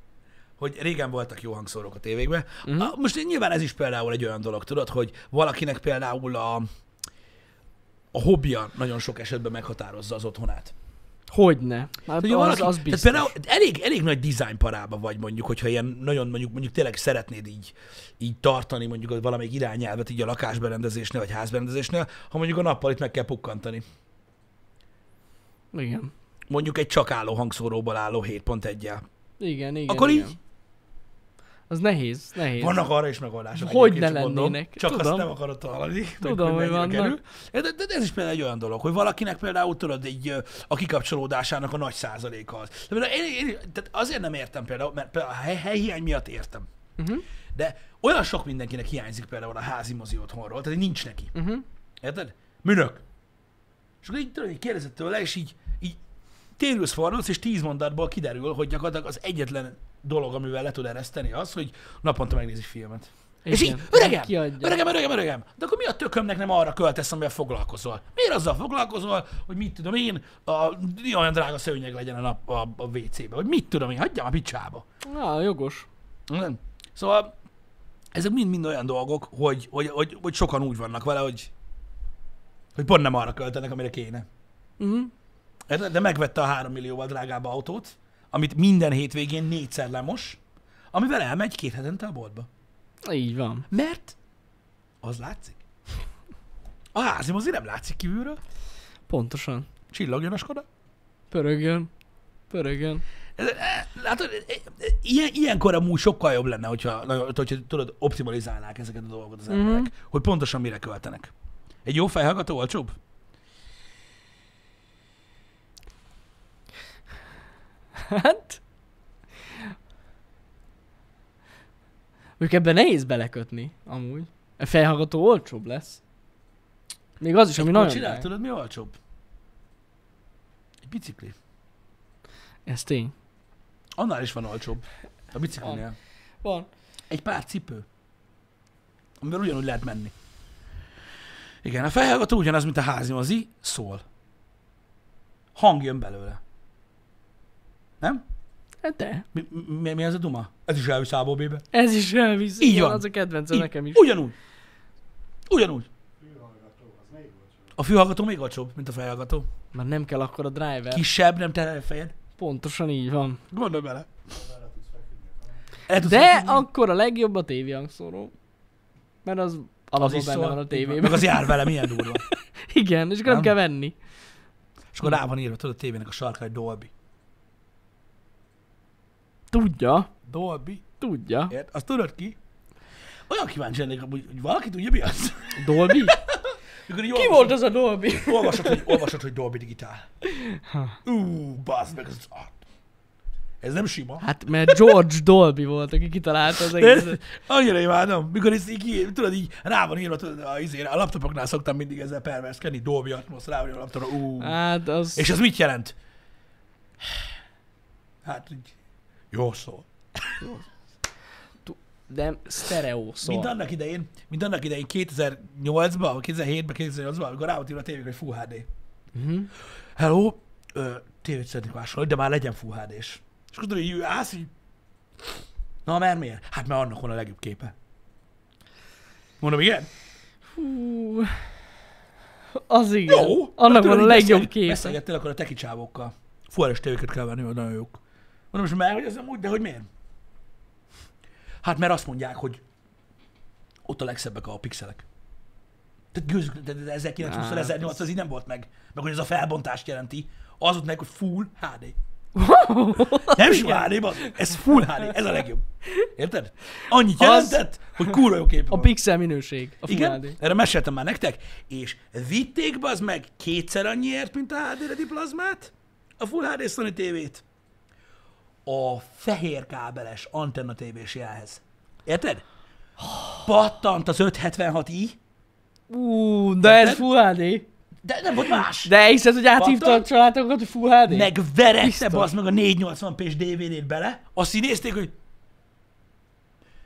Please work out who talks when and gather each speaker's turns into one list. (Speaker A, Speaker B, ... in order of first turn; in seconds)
Speaker A: 0.6-6.7, 8.1-10.7, 12.2-23.8, 26.5-29.0, 29.9-30.3, 32.6-46.7, 47.5-51.3, 52.0-53.0, 54.0-56.0, 56.6-74.8, 76.3-77.3, 78.1-81.5, 82.7-84.2, 85.7-90.4, 90.9-92.5, 93.7-94.2, 95.0-95.6, 96.9-98.4, 99.9-100.7, 103.4-111.3, 111.8-113.0, 127.6-128.9, 130.8-131.3, 134.0-135.9, 137.1-137.8, 139.2-140.1, 141.6-144.0, 145.5-146.4, 149.3-151.7, 152.6-154.3, 155.5-155.9, 157.8-159.5, 160.9-162.1, 163.5-164.1, 165.9-166.7, 170.0-172.2, 173.2-173.5, 174.9-176.9, 180.2-180.8, 181.5-182.4, 183.3-187.6, 188.2-190.1, 191.0-192.6, 193.6-195.0, 196.5-204.6, 205.1-205.9, 208.2-208.8, 209.3-210.6, 213.2-218.7, 219.9-224.5, 225.8-227.7, 229.4-229.9, 233.1-238.0, 238.5-239.9, 241.6-242.6, 243.8-245.0, 246.1-251.9, 253.2-258.9, 259.9-267.4, 268.6-272.4, 273.4-275.2, 276.6-277.0, 278.0-278.9, 279.5-280.1, 281.1-285.1
Speaker B: 2.6-2.9, 11.3-13.3, 25.7-26.1, 29.4-30.4, 31.7-32.9, 33.5-35.3, 36.2-37.2, 47.0-47.2, 51.3-51.6, 63.4-64.8, 75.0-75.9, 84.8-85.1, 93.0-93.7, 99.1-99.7, 101.3-101.9, 102.5-103.0, 109.5-109.9, 118.0-118.6, 122.4-126.0, 127.2-128.3, 132.7-133.1, 136.4-136.7, 148.8-149.2, 151.7-154.1, 159.7-161.0, 162.4-163.4, 166.0-168.3, 169.2-173.9, 179.5-180.1, 181.0-181.5, 185.6-186.2, 187.1-189.0, 190.3-190.9, 194.2-197.2, 204.4-205.3, 211.6-213.5, 219.1-219.5, 230.5-231.4, 232.5-234.9, 247.2-248.0, 252.3-253.9, 257.1-257.6, 258.7-260.4, 275.9-277.6, 278.8-282.3
Speaker C: 156.2-157.8, 164.3-165.6